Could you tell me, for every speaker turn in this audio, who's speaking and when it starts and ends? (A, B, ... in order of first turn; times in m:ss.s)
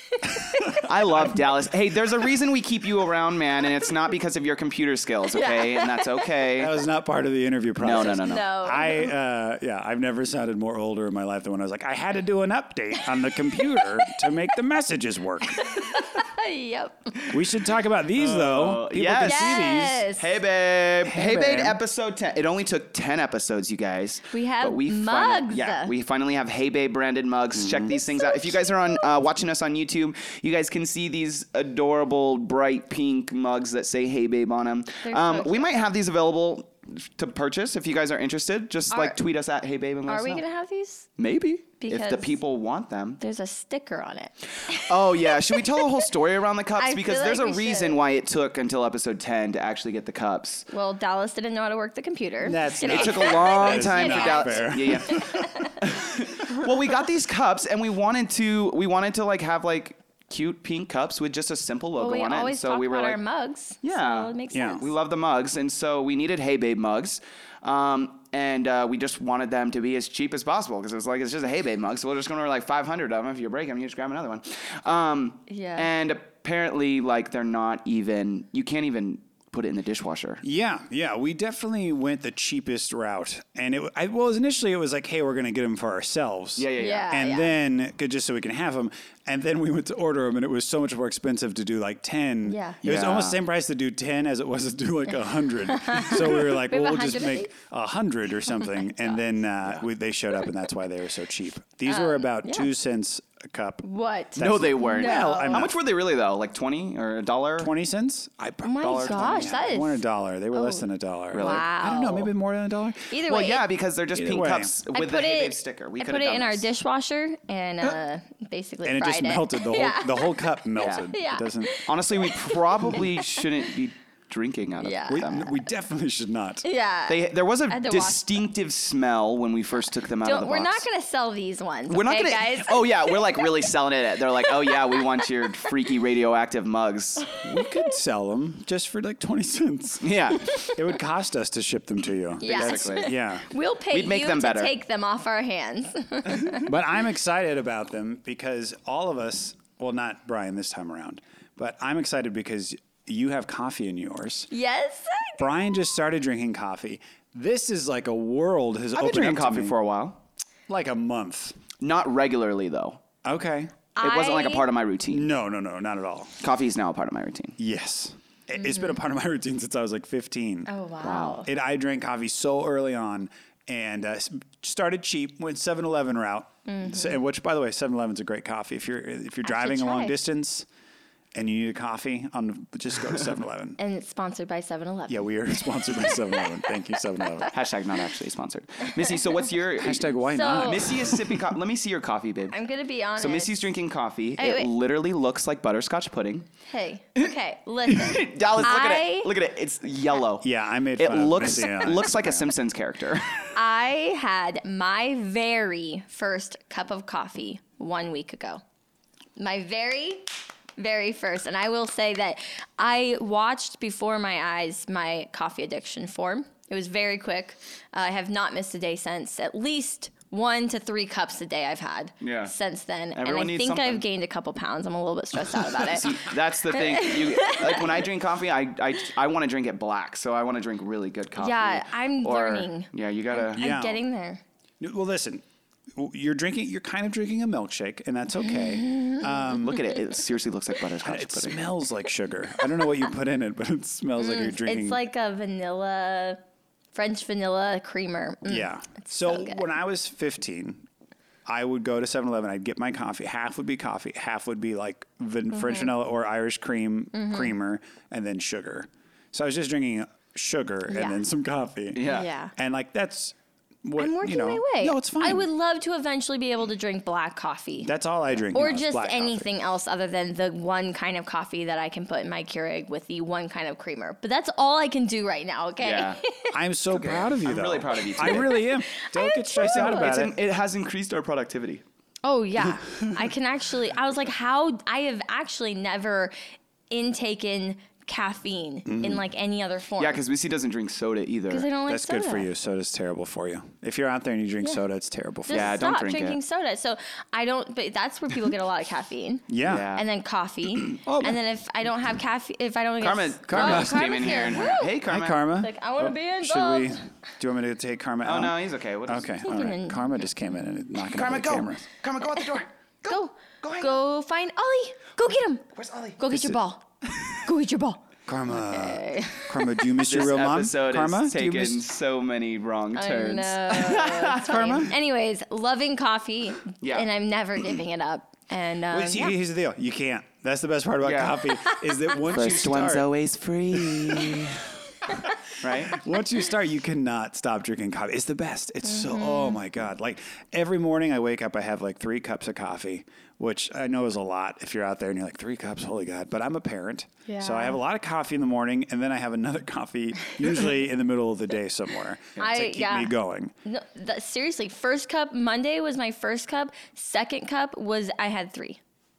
0:00.2-0:00.8 A
0:00.2-0:01.4 B
0:00.8-0:06.7 C
0:05.3-0:06.4 A
0:06.6-0:15.8 B
0:07.8-0:08.5 C
0:08.2-0:09.2 A
0:15.6-0:17.3 A
0:17.3-0:20.1 B
0:18.2-0:40.4 C
0:19.2-0:20.3 A
0:21.0-0:21.8 B
0:24.3-0:25.9 A
0:27.6-0:27.9 B
0:27.9-0:28.8 A
0:35.0-0:35.7 A
0:38.9-0:39.2 A
0:40.1-0:41.1 A
0:41.2-0:43.2 C
0:41.8-0:42.3 A
0:43.2-0:46.0 A
0:44.7-0:50.7 C
0:46.8-0:48.0 A
0:50.7-0:55.8 A
0:52.4-0:55.7 B
0:52.8-1:03.2 C
1:02.0-1:04.9 A
1:03.8-1:20.4 C
1:04.5-1:04.9 B
1:15.5-1:15.9 A
1:20.4-1:43.8 B
1:26.6-1:27.2 C
1:26.8-1:27.6 A
1:32.5-1:32.8 A
1:32.8-1:33.4 C
1:35.7-1:37.5 A
1:41.9-1:42.7 A
1:43.8-1:45.7 A
1:44.4-1:45.8 B
1:44.4-1:47.7 C
1:47.6-1:53.1 B
1:48.6-1:50.8 A
1:48.8-1:49.7 C
1:51.3-1:51.7 C
1:51.4-1:52.3 A
1:53.1-1:53.6 A
1:53.2-1:56.7 C
1:54.1-1:54.7 B
1:54.9-2:00.6 A
1:58.8-2:01.8 B
2:00.8-2:01.1 C
2:01.1-2:03.6 A
2:01.9-2:05.5 C
2:04.8-2:05.4 A
2:05.1-2:06.6 B
2:06.6-2:08.2 A
2:07.1-2:10.9 C
2:10.2-2:13.5 A
2:11.9-2:17.3 C
2:14.6-2:15.7 A
2:17.4-2:23.5 B
2:20.0-2:20.5 C
2:22.4-2:23.1 C
2:22.4-2:26.7 A
2:23.9-2:24.8 C
2:26.6-2:34.5 B
2:34.5-2:35.5 A
2:35.4-2:39.7 B
2:39.0-2:40.2 C
2:40.7-2:41.6 B
2:41.8-2:43.0 C
2:43.2-2:43.7 B
2:44.0-2:44.7 A
2:44.0-2:45.3 C
2:45.1-2:46.4 B
2:46.4-2:47.6 C
2:47.6-2:50.7 B
2:48.6-2:49.0 A
2:50.7-2:51.5 A
2:51.0-2:51.4 C
2:51.4-3:00.7 B
2:56.7-2:57.2 A
2:59.4-3:00.2 A
3:01.4-3:03.8 B
3:03.8-3:05.6 A
3:05.1-3:07.5 B
3:07.5-3:12.6 C
3:09.8-3:11.4 B
3:10.3-3:10.9 A
3:12.5-3:13.7 A
3:13.2-3:16.5 C
3:14.4-3:14.7 A
3:16.7-3:19.3 A
3:17.9-3:23.5 C
3:20.4-3:22.5 B
3:23.5-3:28.6 A
3:29.4-3:48.0 A
3:42.2-3:42.5 C
3:43.2-3:44.0 C
3:45.7-3:53.6 C
3:51.4-3:54.4 A
3:53.6-3:54.0 B
3:54.8-3:59.8 B
3:58.5-3:59.6 A
3:59.6-4:01.7 C
4:01.0-4:05.0 B
4:04.2-4:06.4 A
4:06.9-4:09.6 A
4:08.5-4:10.8 B
4:11.5-4:25.5 B
4:15.5-4:16.0 A
4:17.1-4:17.5 A
4:20.9-4:21.2 A
4:22.0-4:22.3 C
4:22.0-4:22.5 A
4:24.0-4:27.9 A
4:27.8-4:29.5 B
4:28.5-4:36.6 A
4:35.8-4:36.2 C
4:36.5-4:40.4 B
4:36.9-4:38.7 C
4:38.6-4:40.2 A
4:39.6-4:41.8 C
4:42.2-4:46.4 A
4:46.9-4:50.2 A
4:48.8-4:49.2 B
4:50.0-4:51.7 C
4:51.5-4:52.5 A
4:51.9-4:55.8 B
4:55.5-5:05.0 A
4:55.5-4:56.4 C
4:59.5-4:59.9 B
4:59.6-5:00.0 C
5:01.0-5:01.4 B
5:03.0-5:05.4 C
5:03.5-5:11.8 B
5:05.6-5:07.0 A
5:08.2-5:09.4 C
5:09.4-5:10.1 A
5:11.1-5:14.0 C
5:12.4-5:15.6 A
5:15.7-5:16.3 C
5:16.2-5:16.8 A
5:16.3-5:16.6 B
5:17.4-5:19.7 A
5:18.3-5:21.8 B
5:20.0-5:24.9 C
5:23.0-5:29.4 A
5:26.8-5:27.1 C
5:28.9-5:33.1 B
5:31.0-5:31.5 C
5:32.3-5:34.7 C
5:33.7-5:34.6 B
5:35.1-5:53.5 B
5:35.6-5:36.0 C
5:38.9-5:39.6 A
5:47.3-5:47.8 A
5:52.4-5:58.8 A